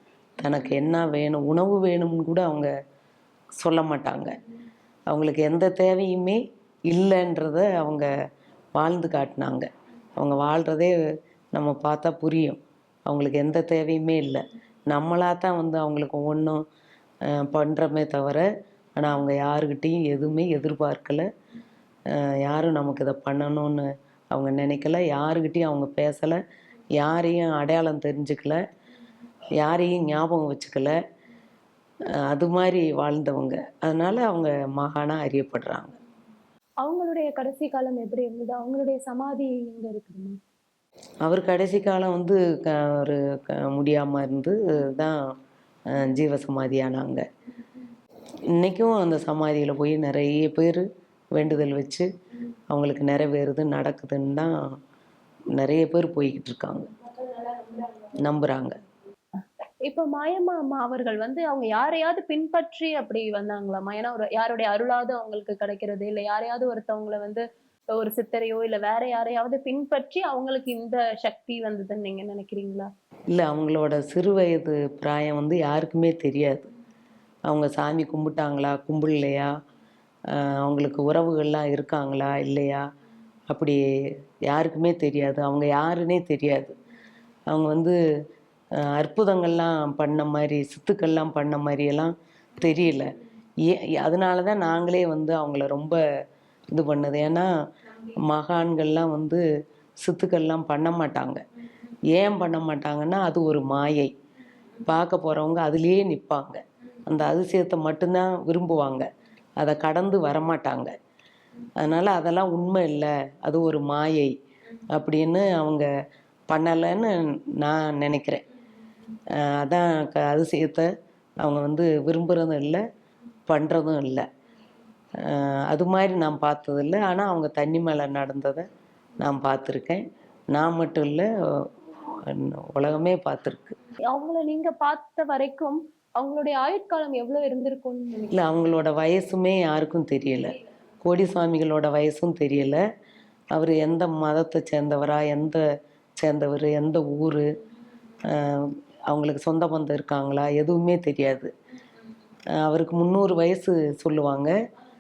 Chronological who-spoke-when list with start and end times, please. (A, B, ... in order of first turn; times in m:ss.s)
0:00.4-0:02.7 A
0:03.6-0:04.3 A
0:05.1-0:08.1 A
0:08.8-0:10.9 A
0:11.5-0:16.6 A
0:17.3-0:18.5 A
0:19.0-0:21.3 A
0:22.1-0:26.4 A
0:27.0-0:28.6 A
0:29.6-0:31.0 A
0:32.3-0:35.9 A
0:36.8-0:40.4 B
0:41.2-0:45.2 A
0:45.9-0:47.2 A
0:48.6-0:52.1 A
0:52.7-0:54.5 A
0:55.6-0:56.9 A
0:57.1-0:58.2 B
0:58.2-0:58.8 A
0:59.8-1:07.4 B
1:08.0-1:12.9 B
1:13.3-1:16.7 A
1:17.5-1:19.5 A
1:20.3-1:22.8 A
1:23.5-1:23.8 A
1:24.5-1:26.7 A
1:27.5-1:28.0 A
1:28.8-1:33.1 A
1:33.6-1:36.0 A
1:36.7-1:37.5 A
1:38.2-1:39.4 A
1:40.0-1:41.4 A
1:42.1-1:44.1 A
1:44.8-1:49.1 A
1:49.6-1:50.9 A
1:51.8-1:54.3 A
1:54.9-1:55.9 A
1:56.5-1:58.4 A
1:59.3-2:00.9 A
2:01.4-2:02.8 A
2:03.5-2:04.3 A
2:05.2-2:08.7 A
2:09.2-2:13.8 A
2:14.1-2:18.4 B
2:18.3-2:22.8 A
2:23.5-2:25.6 A
2:26.2-2:27.5 A
2:28.3-2:31.5 A
2:32.6-2:34.5 A